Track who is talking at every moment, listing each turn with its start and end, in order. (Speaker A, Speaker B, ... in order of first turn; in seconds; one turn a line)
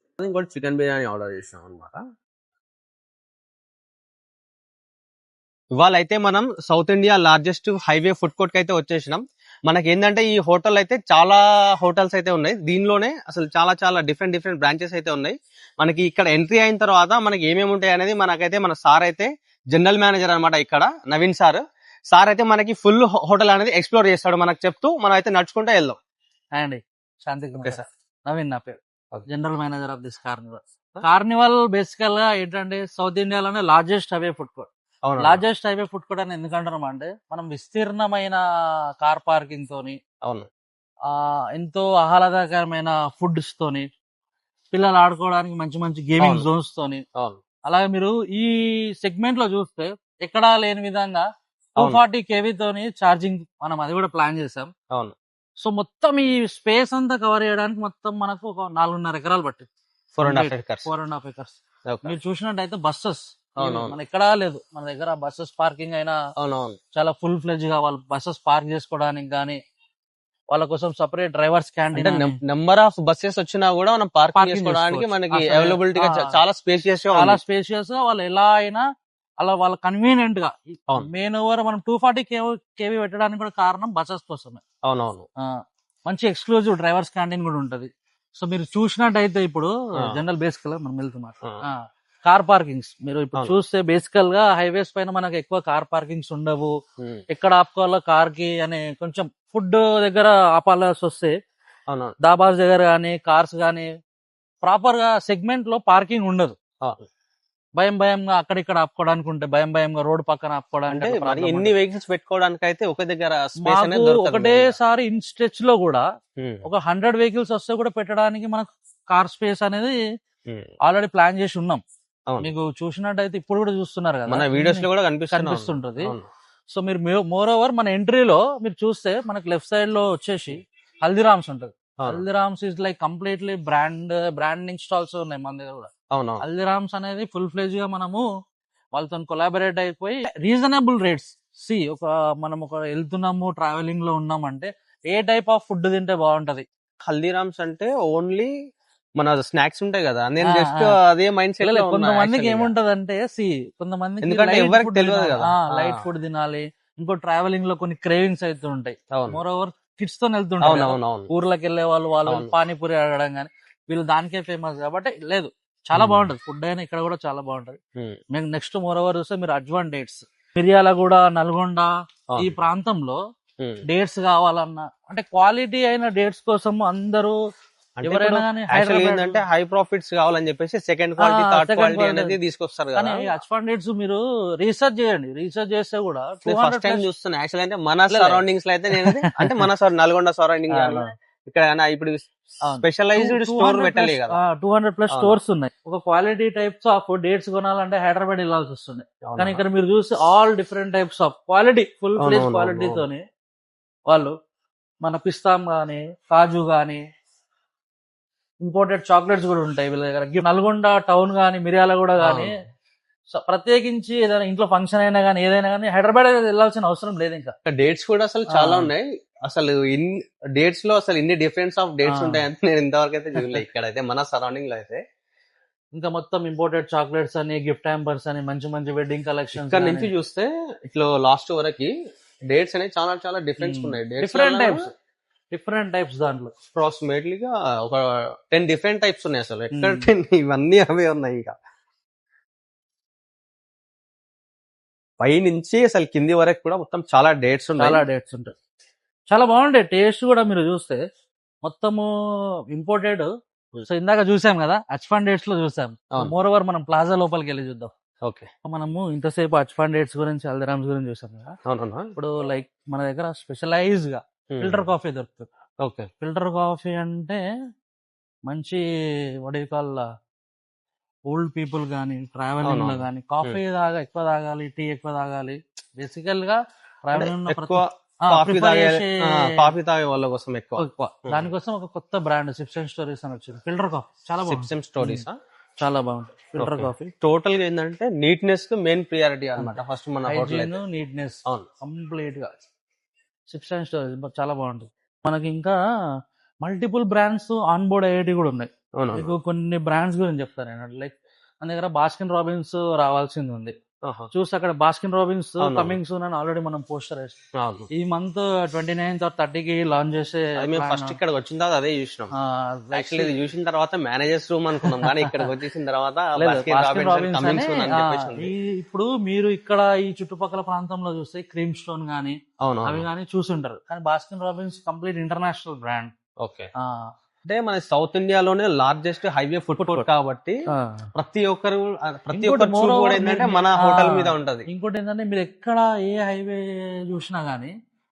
Speaker A: 0.2-2.0
Speaker A: 5.8-26.0
Speaker B: 26.6-34.7
Speaker A: 35.0-35.4
Speaker B: 35.2-38.4
Speaker B: 39.0-40.0
Speaker B: 41.1-43.9
Speaker B: 44.7-47.0
Speaker A: 46.2-46.5
Speaker B: 47.7-51.3
Speaker B: 51.8-54.7
Speaker B: 55.6-59.7
Speaker A: 60.1-60.9
Speaker B: 60.2-66.2
Speaker A: 61.9-62.1
Speaker A: 63.6-64.0
Speaker A: 66.4-66.8
Speaker B: 67.0-69.6
Speaker B: 70.5-72.3
Speaker A: 71.9-77.4
Speaker B: 74.3-76.3
Speaker B: 77.1-78.8
Speaker B: 79.4-84.6
Speaker A: 84.8-85.2
Speaker B: 86.1-96.7
Speaker A: 97.0-97.2
Speaker B: 97.3-101.3
Speaker A: 101.9-102.1
Speaker B: 102.2-103.9
Speaker B: 104.6-106.5
Speaker B: 107.8-111.7
Speaker A: 110.9-114.8
Speaker B: 113.6-116.0
Speaker A: 116.4-116.6
Speaker B: 116.6-120.0
Speaker B: 120.9-121.8
Speaker B: 122.4-126.1
Speaker A: 124.3-126.3
Speaker B: 126.7-135.9
Speaker A: 136.1-136.4
Speaker B: 136.4-138.2
Speaker B: 138.9-146.6
Speaker A: 147.1-148.5
Speaker A: 149.2-152.7
Speaker B: 150.4-150.9
Speaker B: 151.6-167.8
Speaker A: 154.2-156.0
Speaker A: 159.1-159.4
Speaker A: 160.6-161.3
Speaker A: 162.3-162.5
Speaker A: 165.9-166.3
Speaker B: 168.3-173.2
Speaker B: 173.9-177.4
Speaker A: 178.0-183.3
Speaker B: 178.0-179.4
Speaker B: 181.2-182.3
Speaker B: 182.9-187.0
Speaker A: 186.4-194.4
Speaker B: 188.1-188.4
Speaker B: 190.7-191.1
Speaker B: 192.7-203.2
Speaker A: 195.1-195.4
Speaker A: 199.2-199.6
Speaker A: 202.2-203.0
Speaker B: 205.0-207.0
Speaker B: 208.6-212.5
Speaker A: 212.2-212.5
Speaker B: 213.3-217.6
Speaker A: 217.7-225.0
Speaker B: 218.5-218.9
Speaker B: 222.1-222.4
Speaker B: 223.3-223.6
Speaker B: 225.9-230.1
Speaker A: 229.6-231.9
Speaker A: 232.5-234.8
Speaker B: 233.6-234.9
Speaker B: 235.5-236.5
Speaker A: 236.7-241.5
Speaker B: 239.7-240.1
Speaker A: 245.2-248.0
Speaker B: 247.8-248.5
Speaker B: 249.3-251.0
Speaker B: 251.6-252.1
Speaker B: 252.7-253.3
Speaker B: 253.9-257.9
Speaker B: 258.6-261.5
Speaker A: 261.7-262.1
Speaker B: 262.1-265.5
Speaker A: 264.5-264.9
Speaker A: 265.8-266.1
Speaker B: 266.2-267.4
Speaker B: 268.5-268.8
Speaker B: 269.4-270.1
Speaker B: 271.3-279.7
Speaker A: 272.6-273.6
Speaker A: 277.1-281.5
Speaker B: 280.8-285.2
Speaker A: 284.5-285.4
Speaker B: 285.8-287.1
Speaker A: 286.6-290.7
Speaker B: 290.3-292.6
Speaker B: 293.5-295.8
Speaker B: 296.6-303.7
Speaker A: 299.0-299.3
Speaker A: 304.1-304.3
Speaker B: 304.3-307.4
Speaker A: 305.6-305.9
Speaker A: 307.6-307.9
Speaker B: 307.9-311.1
Speaker A: 310.6-312.3
Speaker B: 312.4-313.3
Speaker A: 312.9-318.5
Speaker B: 314.8-315.5
Speaker B: 316.4-326.1
Speaker A: 322.6-323.1
Speaker A: 326.4-326.7
Speaker B: 326.8-327.1
Speaker A: 327.4-330.6
Speaker B: 329.8-330.1
Speaker B: 330.7-331.0
Speaker A: 331.2-334.7
Speaker B: 332.3-337.7